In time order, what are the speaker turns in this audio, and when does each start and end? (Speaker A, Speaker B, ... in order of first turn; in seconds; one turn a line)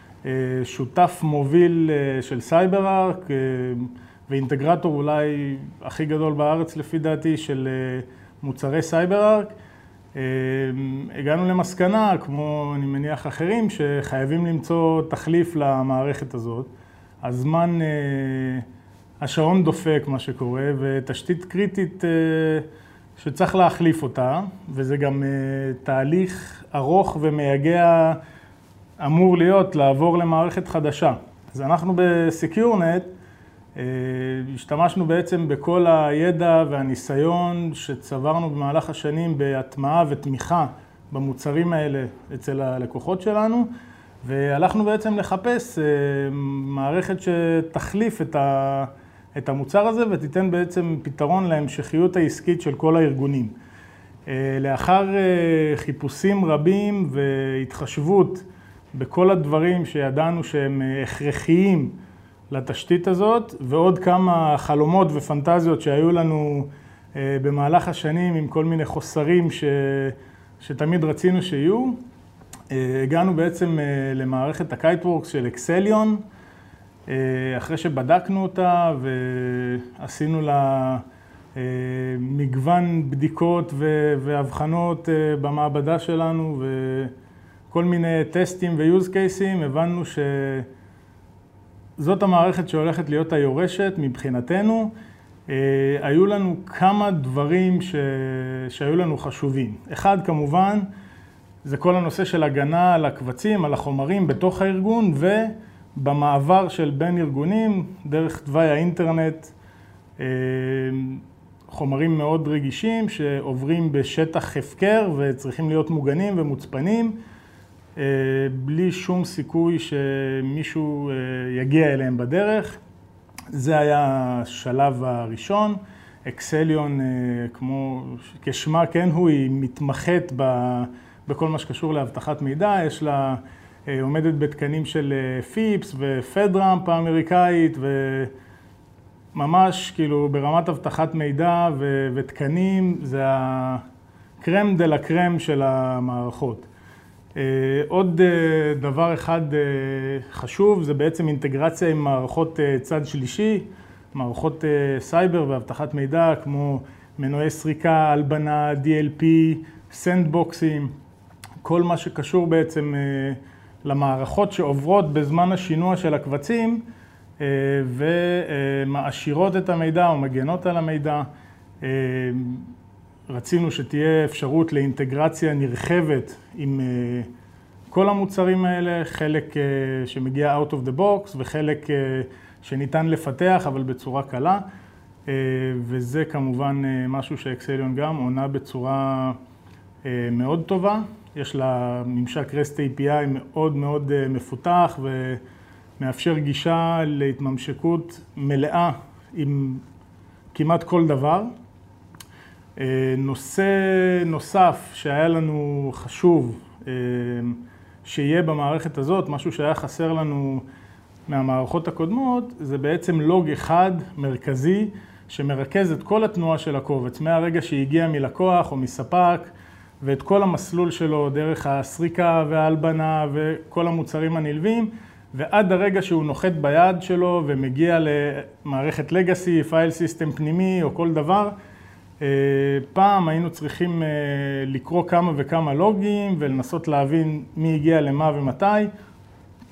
Speaker A: 0.2-9.6
Speaker A: 10.2-16.7
Speaker A: 17.2-18.7
Speaker A: 19.2-22.7
Speaker A: 23.2-28.2
Speaker A: 29.0-33.1
Speaker A: 33.8-43.7
Speaker A: 44.2-53.5
Speaker A: 54.3-62.0
Speaker A: 62.5-72.0
Speaker A: 72.7-76.2
Speaker A: 77.1-81.0
Speaker A: 81.5-87.1
Speaker A: 87.7-90.7
Speaker A: 92.0-94.9
Speaker A: 95.5-100.9
Speaker A: 101.6-109.5
Speaker A: 110.2-117.2
Speaker A: 118.0-122.8
Speaker A: 123.5-138.3
Speaker A: 139.3-143.8
Speaker A: 144.4-146.7
Speaker A: 147.4-160.9
Speaker A: 161.6-166.8
Speaker A: 167.4-171.2
Speaker A: 171.8-172.7
Speaker A: 173.3-177.3
Speaker A: 177.9-184.6
Speaker A: 185.3-189.4
Speaker A: 190.1-195.4
Speaker A: 196.0-199.8
Speaker A: 200.5-201.5
Speaker A: 202.8-210.6
Speaker A: 211.3-231.5
Speaker A: 232.2-238.9